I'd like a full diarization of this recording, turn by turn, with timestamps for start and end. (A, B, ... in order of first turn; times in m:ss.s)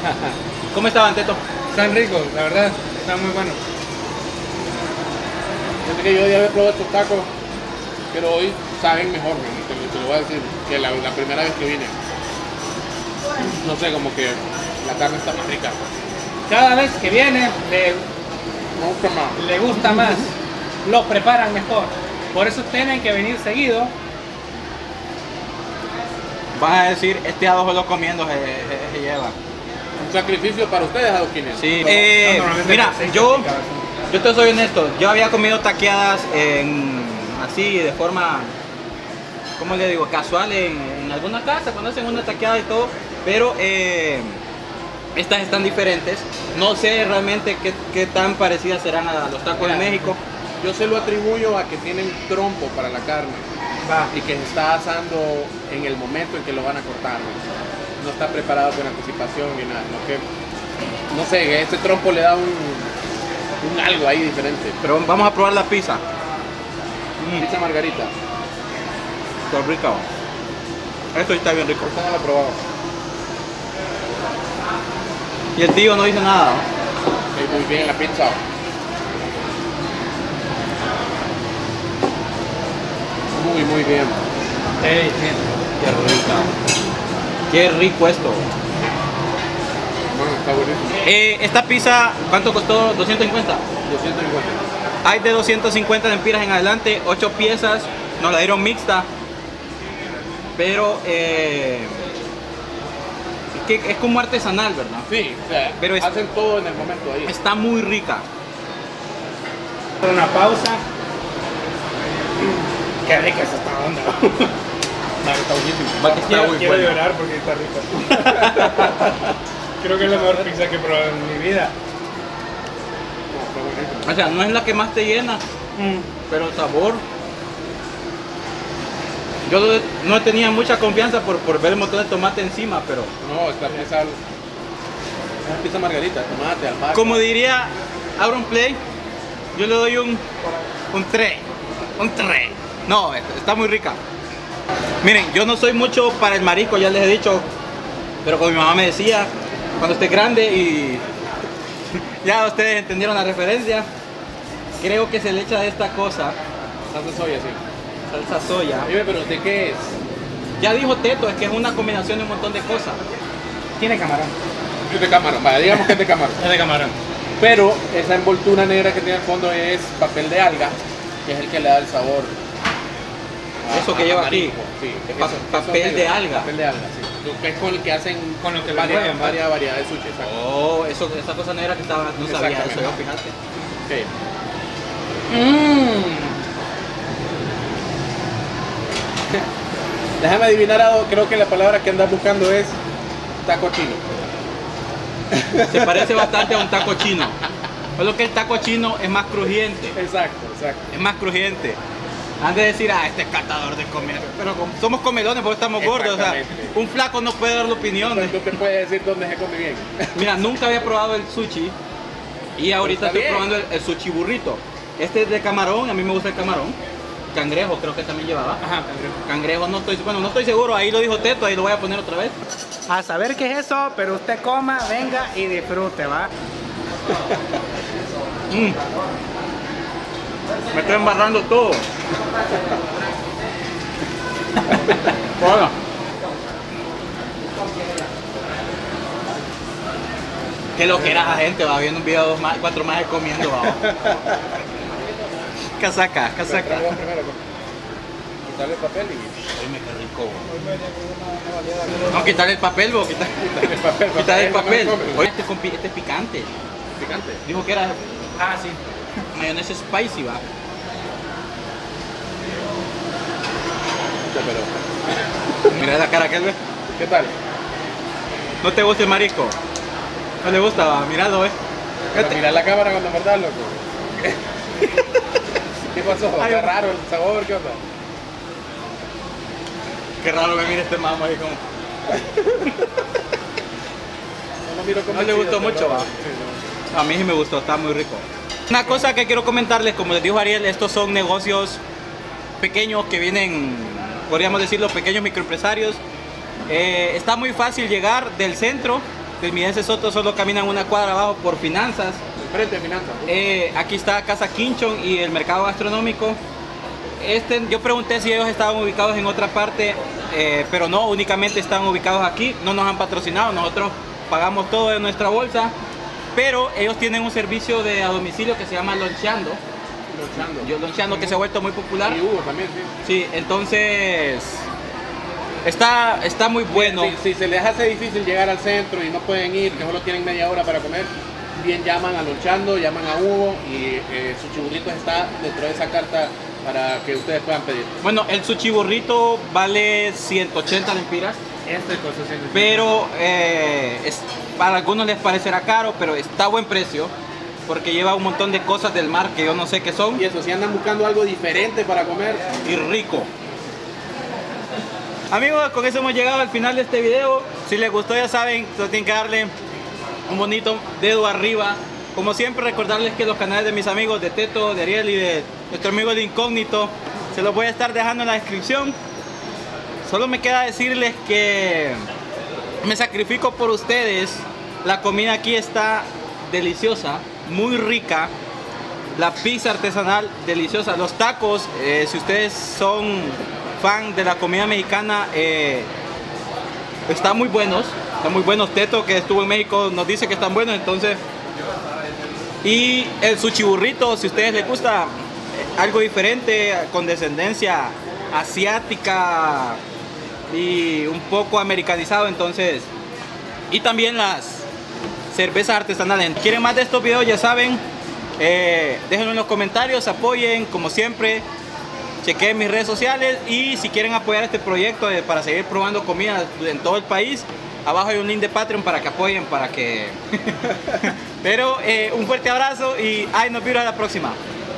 0:00.7-0:01.4 A
0:01.7-0:03.6 B
0:05.8-0:07.3 C
0:08.1-0:11.9 C
0:13.6-0:15.8 C
0:16.5-0:18.0 B
0:18.7-0:19.4 C
0:19.4-0:23.9 B
0:26.6-0:29.4 A
0:30.0-0:31.6 C
0:31.6-0:33.5 A
0:31.9-0:33.8 B
0:34.1-0:38.5 A
0:39.6-0:44.4 A
0:45.1-0:50.2 A
0:49.6-0:53.4 C
0:53.8-0:54.1 B
0:54.1-0:57.4 C
0:58.0-1:00.2 C
1:01.1-1:02.9 C
1:03.6-1:04.8 C
1:04.8-1:06.0 A
1:07.2-1:07.5 A
1:07.4-1:08.1 C
1:09.5-1:10.0 A
1:11.1-1:11.9 A
1:11.8-1:12.6 C
1:15.6-1:16.6 A
1:17.3-1:18.4 C
1:23.3-1:24.2 C
1:24.8-1:25.4 B
1:25.8-1:26.5 A
1:27.5-1:28.5 A
1:30.1-1:31.0 C
1:31.0-1:33.6 A
1:33.8-1:34.6 C
1:35.0-1:39.1 A
1:40.6-1:42.0 A
1:43.5-1:45.1 A
1:45.1-1:47.3 C
1:45.8-1:46.1 A
1:47.2-1:48.2 A
1:50.0-1:50.8 B
1:52.4-1:54.5 B
1:55.2-1:59.0 B
1:56.0-1:57.0 A
1:58.3-1:59.0 A
1:59.8-2:01.7 B
2:03.3-2:04.2 C
2:04.0-2:05.4 A
2:05.8-2:06.1 B
2:06.3-2:07.0 A
2:09.4-2:13.1 A
2:13.2-2:14.2 C
2:15.4-2:17.2 C
2:16.9-2:18.8 A
2:19.5-2:20.2 A
2:20.9-2:24.0 A
2:25.0-2:27.5 A
2:28.2-2:31.0 A
2:31.9-2:33.9 A
2:34.8-2:36.4 A
2:36.9-2:37.6 C
2:38.1-2:38.9 A
2:38.8-2:40.0 C
2:40.6-2:43.0 A
2:43.8-2:44.3 B
2:44.9-2:46.4 C
2:46.4-2:46.9 B
2:47.4-2:52.3 C
2:53.7-3:00.3 C
2:53.7-2:54.6 A
2:55.2-2:56.5 A
2:58.4-2:59.4 B
3:00.2-3:03.3 A
3:02.2-3:02.9 C
3:03.8-3:04.1 C
3:05.3-3:06.4 B
3:10.2-3:12.8 C
3:13.4-3:14.0 C
3:15.3-3:16.8 C
3:15.6-3:17.4 A
3:18.0-3:20.0 A
3:19.9-3:20.9 C
3:20.9-3:21.8 A
3:22.4-3:28.6 A
3:25.8-3:26.7 C
3:28.0-3:30.1 C
3:30.1-3:31.8 A
3:32.6-3:36.8 A
3:32.8-3:33.5 C
3:37.3-3:38.6 A
3:38.6-3:39.2 B
3:39.2-3:42.4 A
3:42.9-3:46.3 B
3:48.5-3:48.8 A
3:50.7-3:51.8 A
3:55.4-3:55.7 A
4:00.8-4:03.9 A
4:03.8-4:04.3 C
4:05.8-4:06.9 A
4:06.4-4:07.4 C
4:08.4-4:09.4 C
4:09.5-4:10.5 A
4:12.1-4:16.5 A
4:13.6-4:15.2 C
4:17.0-4:17.4 C
4:17.4-4:18.0 A
4:18.4-4:18.8 B
4:19.3-4:20.4 A
4:24.3-4:24.8 C
4:25.7-4:26.6 A
4:27.0-4:27.3 C
4:28.6-4:29.6 A
4:30.4-4:31.6 A
4:32.1-4:34.4 C
4:35.9-4:37.8 C
4:36.4-4:36.8 A
4:40.2-4:41.6 A
4:44.6-4:46.6 C
4:45.1-4:46.1 A
4:46.9-4:51.8 A
4:52.6-4:56.0 A
4:56.7-5:02.2 A
5:02.4-5:03.3 C
5:03.2-5:06.4 A
5:07.2-5:15.7 A
5:16.3-5:19.6 A
5:20.1-5:21.4 C
5:20.6-5:22.2 A
5:22.0-5:22.9 C
5:23.0-5:24.6 A
5:25.6-5:27.1 A
5:26.7-5:37.9 C
5:38.0-5:41.4 A
5:41.6-5:42.9 B
5:42.5-5:47.1 A
5:47.7-5:50.2 A
5:50.2-5:52.5 C
5:52.6-5:53.3 A
5:55.3-5:59.5 A
6:00.3-6:09.0 A
6:10.0-6:12.0 A
6:12.8-6:18.3 A
6:19.2-6:25.9 A
6:27.1-6:31.2 A
6:32.6-6:39.8 A
6:40.5-6:42.9 A
6:43.7-6:44.7 A
6:45.3-6:47.8 A
6:48.4-6:51.4 A
6:52.2-7:04.4 A